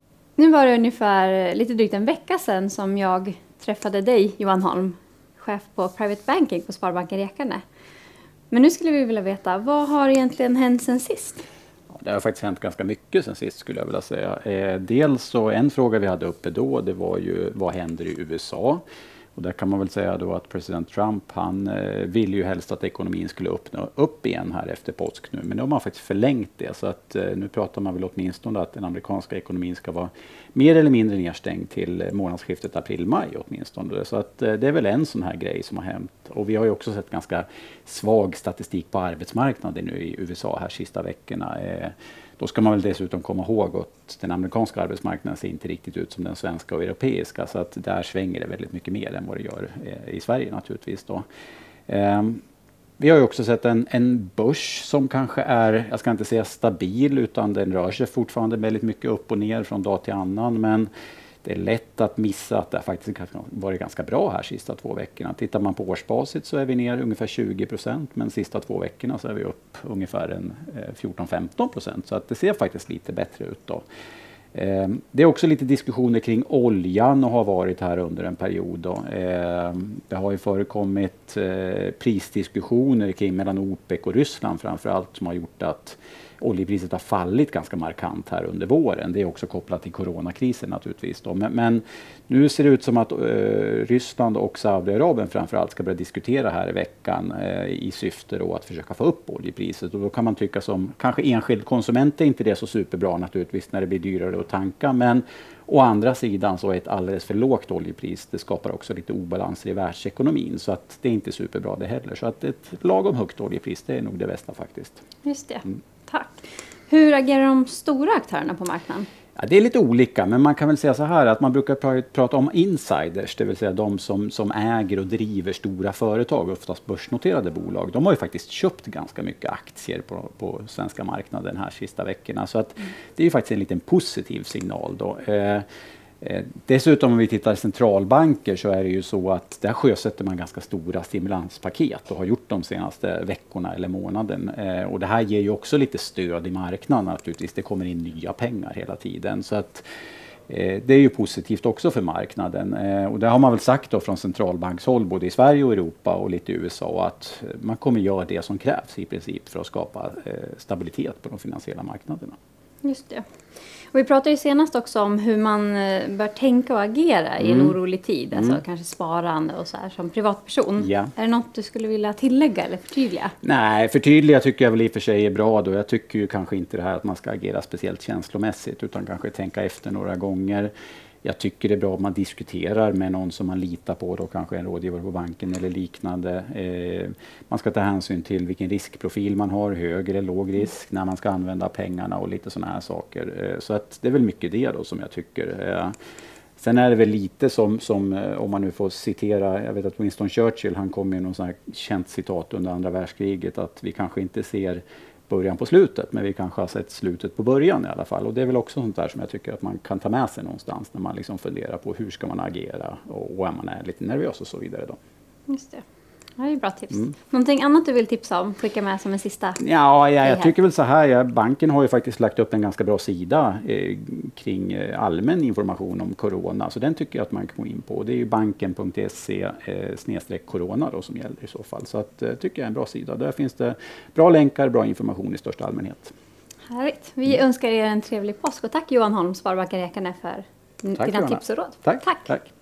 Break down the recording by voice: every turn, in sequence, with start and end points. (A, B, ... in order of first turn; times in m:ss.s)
0:00.4-0:07.6 A
0:08.5-0:11.4 A
0:11.9-0:18.8 B
0:19.3-0:51.2 B
0:51.9-0:52.4 B
0:53.0-1:00.9 B
1:01.4-1:13.8 B
1:14.5-1:55.0 B
1:55.2-1:59.1 A
1:59.4-2:15.6 B
2:16.2-2:29.8 B
2:30.5-2:42.4 B
2:42.8-2:43.2 A
2:43.9-2:53.3 A
2:47.4-2:47.7 B
2:48.3-2:48.6 B
2:50.8-2:51.1 B
2:53.4-3:00.7 B
3:01.2-3:15.9 B
3:16.6-3:35.0 B
3:35.5-3:35.8 A
3:36.4-3:39.6 A
3:39.6-3:56.1 B
3:40.2-3:40.5 A
3:56.7-4:02.3 A
4:01.0-4:02.5 B